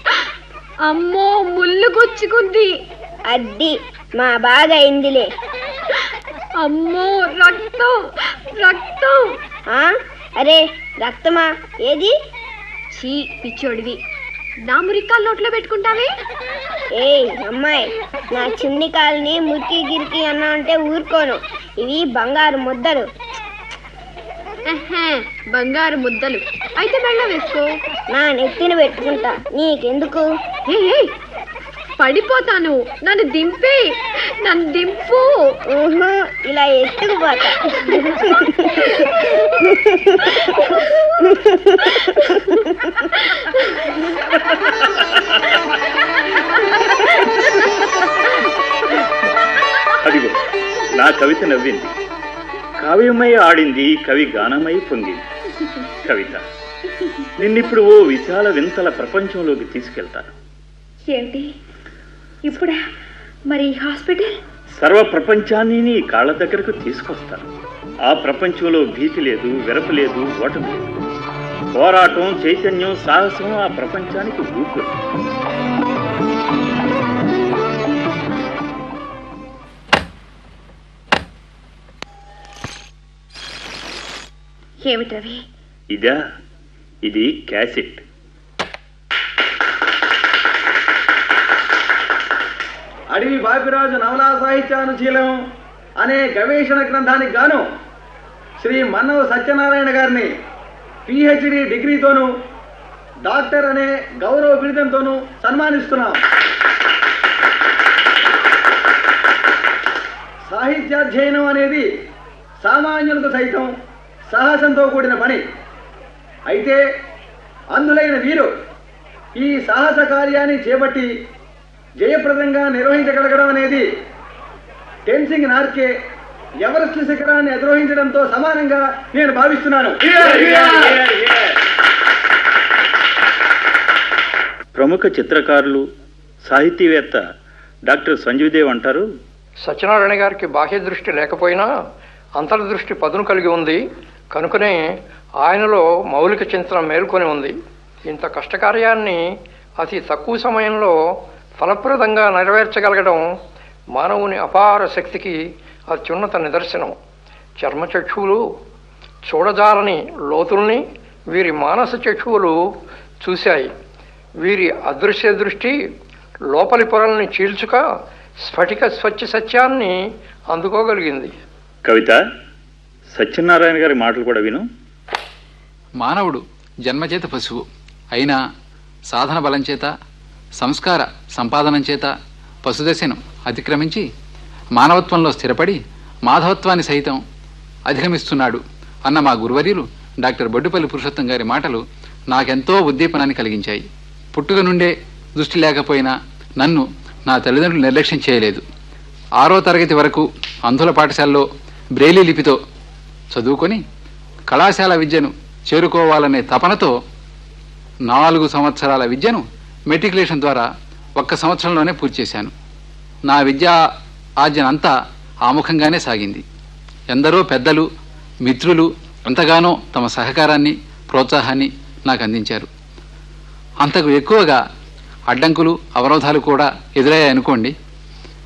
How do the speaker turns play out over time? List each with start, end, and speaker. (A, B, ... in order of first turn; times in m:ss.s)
0:00.9-0:02.8 A
0:03.3-0:05.3 B
0:06.6-0:09.4 A
0:09.7-0:12.1 B
0:13.0-0:14.0 A
0:14.7-0:16.1 A
0:17.0-0:23.1 B
0:24.7-0:27.7 A
0:28.1-0:30.2 B
0:30.7-0:31.1 A
0:32.0-0:35.5 A
0:35.7-0:37.6 B
0:50.0-0:51.9 C
0:52.8-0:55.2 C
0:56.0-0:56.4 C
0:57.4-1:00.3 C
1:01.1-1:01.5 D
1:02.5-1:02.8 D
1:03.5-1:04.4 D
1:04.8-1:07.5 C
1:08.1-1:10.9 C
1:11.7-1:14.9 C
1:24.9-1:25.4 D
1:25.9-1:26.2 C
1:27.0-1:28.0 C
1:33.1-1:35.4 E
1:36.0-1:37.6 E
1:38.6-1:40.3 E
1:41.1-1:42.3 E
1:43.3-1:46.2 E
1:50.5-1:51.9 E
1:52.6-1:53.7 E
1:54.3-1:55.4 E
1:56.5-1:56.8 E
1:57.8-1:58.5 E
1:59.4-2:01.1 E
2:02.0-2:03.8 E
2:05.1-2:05.9 E
2:06.6-2:11.0 E
2:14.8-2:15.8 C
2:16.5-2:17.2 C
2:17.9-2:19.1 C
2:19.6-2:21.7 F
2:22.4-2:23.8 F
2:24.3-2:24.9 F
2:25.4-2:33.3 F
2:33.9-2:37.0 F
2:37.6-2:38.5 F
2:39.2-2:42.6 F
2:43.2-2:43.7 F
2:44.4-2:45.8 F
2:46.5-2:47.8 F
2:48.4-2:50.0 F
2:50.5-2:51.3 F
2:51.9-2:52.2 C
2:53.1-2:54.7 C
2:56.0-2:58.4 G
2:59.1-2:59.9 G
3:00.6-3:02.1 G
3:02.6-3:04.1 G
3:04.8-3:07.2 G
3:07.9-3:18.6 G
3:19.4-3:22.6 G
3:23.3-3:23.8 G
3:24.5-3:27.0 G
3:28.1-3:32.5 G
3:33.3-3:33.8 G
3:34.4-3:36.4 G
3:37.1-3:37.9 G
3:38.4-3:42.7 G
3:43.8-3:44.6 G
3:45.3-3:47.7 G